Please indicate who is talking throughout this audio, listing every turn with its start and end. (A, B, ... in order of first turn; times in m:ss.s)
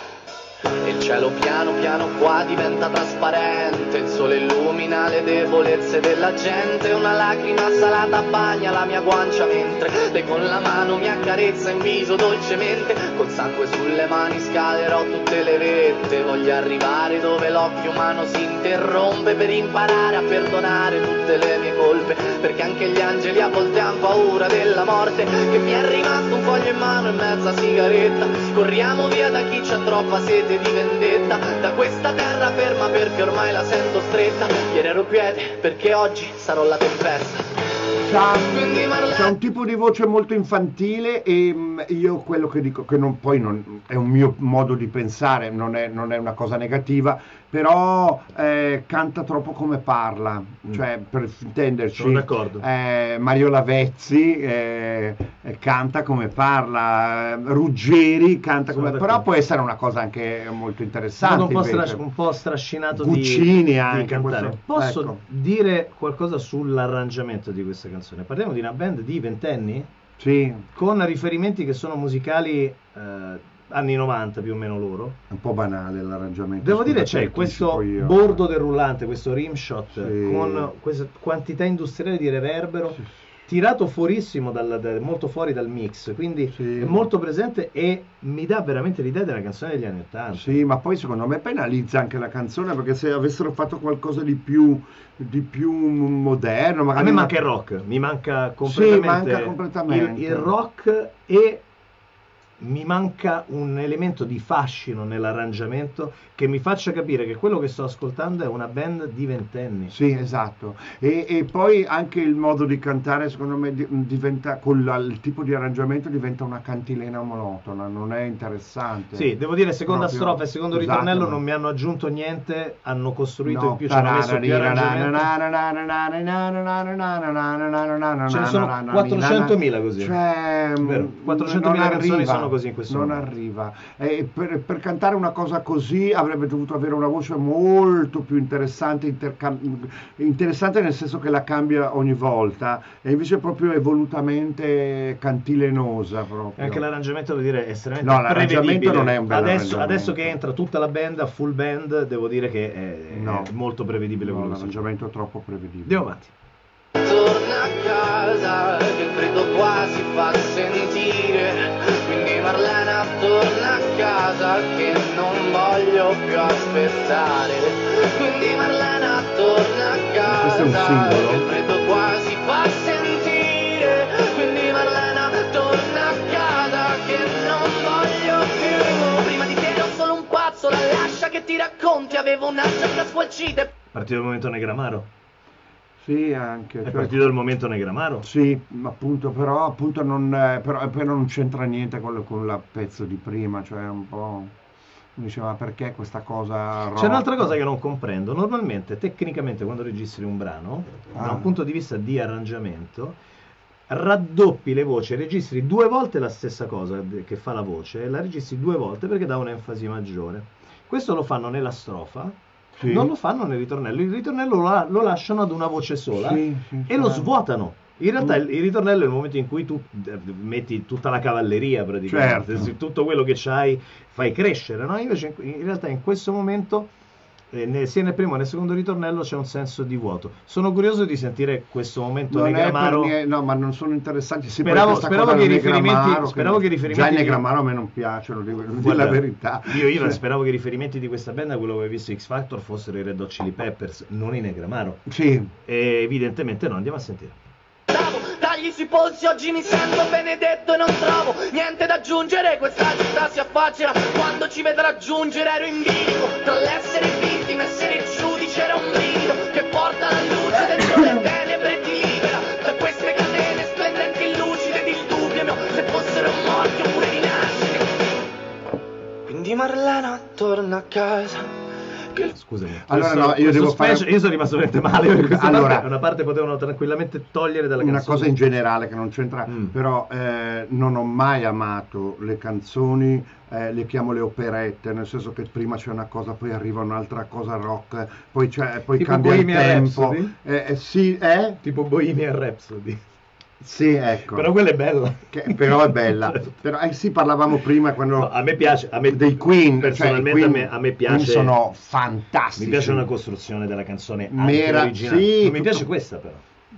0:00.8-0:37.6 A
0:38.0-1:02.0 B
0:38.4-0:39.3 A
0:51.9-0:52.6 C
0:58.7-0:59.2 C
1:01.2-1:09.9 C
1:02.9-1:05.2 B
1:10.2-1:10.7 B
1:10.7-1:15.2 C
1:15.3-1:18.4 B
1:16.6-1:30.6 C
1:19.9-1:20.7 B
1:26.5-1:27.0 B
1:30.3-1:37.3 B
1:37.0-1:41.6 C
1:38.6-1:40.5 B
1:42.6-1:49.9 C
1:49.9-1:59.3 B
1:59.1-2:05.3 C
1:59.8-2:01.4 B
2:03.4-2:26.8 B
2:08.3-2:10.2 C
2:10.8-2:13.3 C
2:26.6-2:34.9 C
2:28.0-2:30.3 B
2:33.1-2:33.5 B
2:34.2-2:36.0 B
2:35.8-2:36.3 C
2:37.0-3:03.7 A
2:50.3-2:51.5 B
3:03.9-3:05.1 C
3:06.0-3:07.3 B
3:06.8-3:08.3 C
3:08.2-3:14.5 B
3:15.2-3:17.5 B
3:16.9-3:23.2 C
3:21.1-3:21.5 B
3:23.9-3:32.3 C
3:32.8-3:33.1 B
3:32.8-3:46.9 C
3:36.1-3:37.3 B
3:42.1-3:42.7 B
3:47.5-3:53.1 C
3:52.3-4:00.2 B
3:54.6-3:57.4 C
3:58.7-4:05.0 C
4:05.1-4:05.5 B
4:05.6-4:07.4 C
4:07.9-4:28.0 A
4:29.3-4:31.5 A
4:32.3-4:38.3 C
4:32.8-4:34.1 B
4:35.2-4:35.9 B
4:37.8-4:51.6 B
4:39.4-4:39.7 C
4:48.9-4:50.3 C
4:51.6-4:53.0 C
4:53.6-4:54.5 B
4:54.2-4:56.6 C
4:55.3-4:58.4 B
4:58.1-5:01.5 C
4:59.0-5:03.0 B
5:02.6-5:06.4 C
5:04.3-5:05.9 B